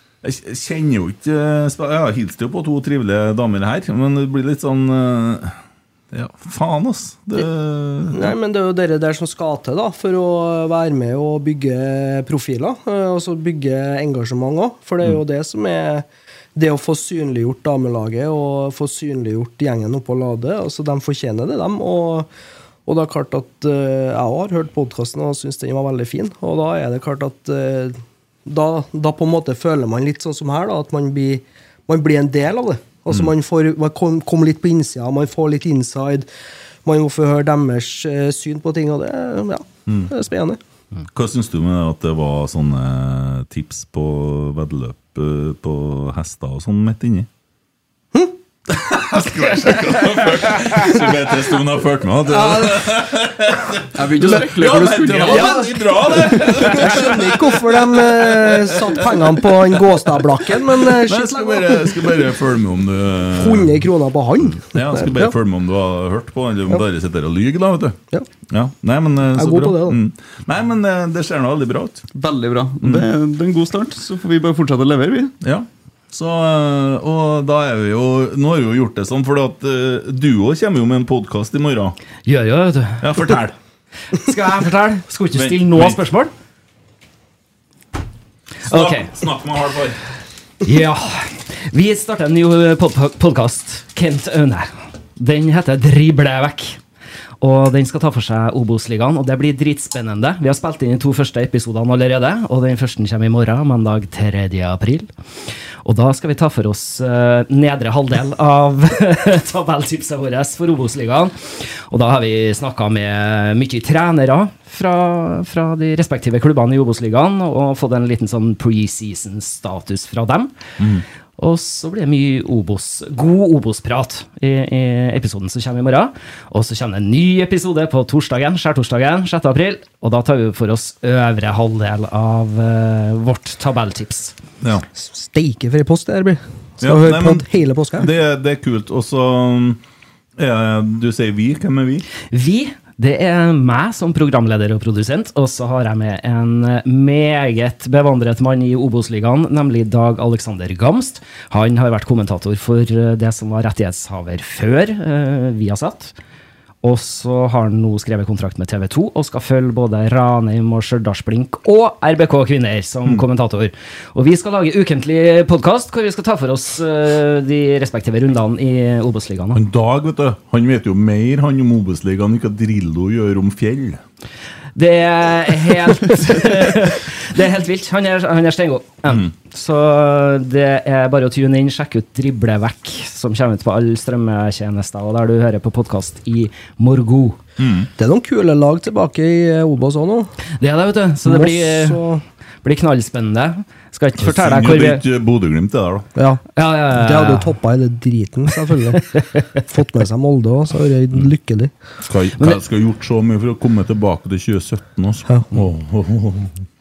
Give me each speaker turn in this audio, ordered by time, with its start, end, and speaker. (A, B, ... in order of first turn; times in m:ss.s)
0:00.2-0:05.6 A
0:06.1-0:08.4 A
0:08.1-0:22.3 B
0:22.9-0:36.3 B
0:36.8-0:40.6 B
0:41.1-0:47.3 A
0:48.7-0:59.9 A
0:52.3-0:52.9 B
0:53.9-0:55.7 C
0:55.2-1:02.1 B
0:56.3-0:56.7 C
1:00.7-1:03.8 A
1:03.4-1:05.3 B
1:04.7-1:08.0 A
1:08.5-1:12.0 A
1:09.3-1:10.0 B
1:12.1-1:15.3 C
1:12.8-1:13.1 A
1:15.4-1:22.0 A
1:22.3-1:23.0 D
1:23.0-1:23.6 A
1:24.1-1:26.3 D
1:25.4-1:26.0 A
1:28.7-1:30.0 A
1:28.7-1:29.1 D
1:30.6-1:36.8 D
1:37.4-1:45.1 D
1:45.8-2:00.5 D
2:01.4-2:14.3 D
2:15.0-2:18.1 B
2:16.8-2:19.8 A
2:20.4-2:22.1 A
2:22.3-2:36.2 D
2:36.8-2:49.6 D
2:49.6-2:54.0 A
2:54.8-3:07.4 D
3:07.6-3:07.9 A
3:08.0-3:10.3 B
3:10.6-3:12.0 D
3:11.3-3:12.2 B
3:12.6-3:15.0 D
3:14.2-3:16.1 A
3:16.2-3:21.7 B
3:16.6-3:17.5 D
3:22.1-3:26.5 A